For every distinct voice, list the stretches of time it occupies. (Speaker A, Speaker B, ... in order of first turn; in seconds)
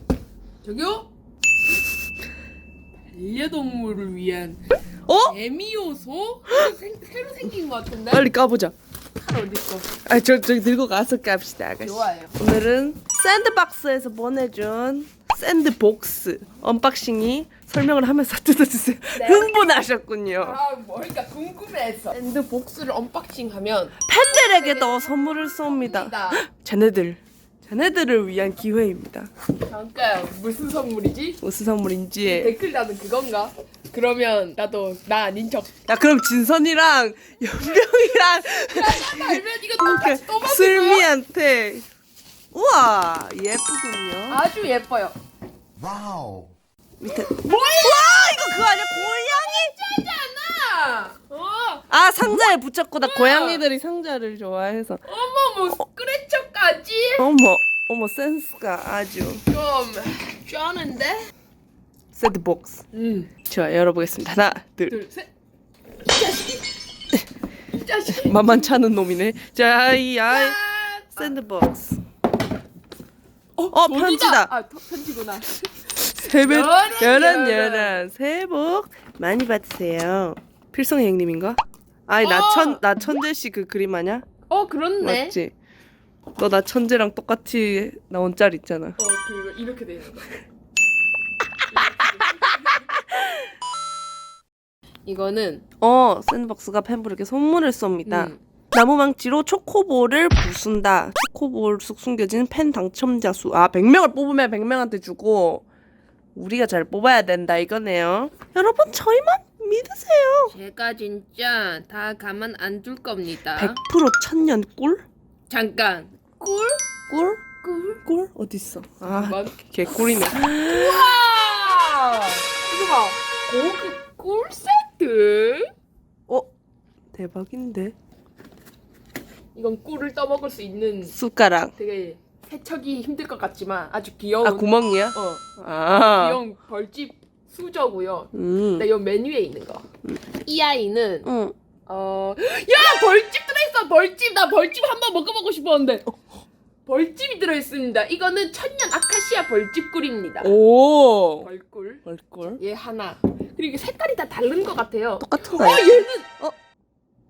Speaker A: 0.6-1.1, 3.1-4.6, 5.3-8.3, 9.2-9.9, 11.8-12.4, 19.1-19.5, 20.4-26.4, 29.6-31.4, 32.2-35.8, 38.5-41.1, 44.3-45.1, 47.0-48.4, 49.0-51.8, 53.0-53.6, 55.0-57.3, 59.5-61.2, 62.9-63.3, 64.9-65.3, 66.0-66.7, 67.7-68.6, 70.3-71.3, 73.6-78.0, 82.2-82.8, 84.5-85.3, 89.0-90.4, 91.7-92.9, 95.0-95.6, 98.0-98.4, 110.5-113.8, 115.5-116.8, 117.6-118.0, 119.0-119.6, 120.4-125.7, 129.5-131.1, 131.8-135.4, 135.9-141.3, 141.9-146.1, 146.8-150.5, 151.4-152.0, 152.6-156.3
Speaker B: 5.1-5.3, 8.1-8.7, 10.1-20.6, 24.1-29.3, 31.4-32.5, 35.9-41.9, 42.5-44.4, 47.0-49.7, 51.9-55.0, 57.2-59.4, 62.1-62.8, 63.5-65.0, 68.1-70.6, 71.2-72.0, 73.7-74.5, 76.0-84.3, 85.0-85.5, 86.4-89.0, 93.0-93.3, 95.8-105.6, 106.3-110.5, 113.5-115.0, 117.1-117.4, 118.0-121.1, 127.1-127.9, 131.1-131.7, 134.4-136.4, 138.3-138.9, 141.2-141.5, 150.4-151.5, 152.0-152.6, 155.2-156.5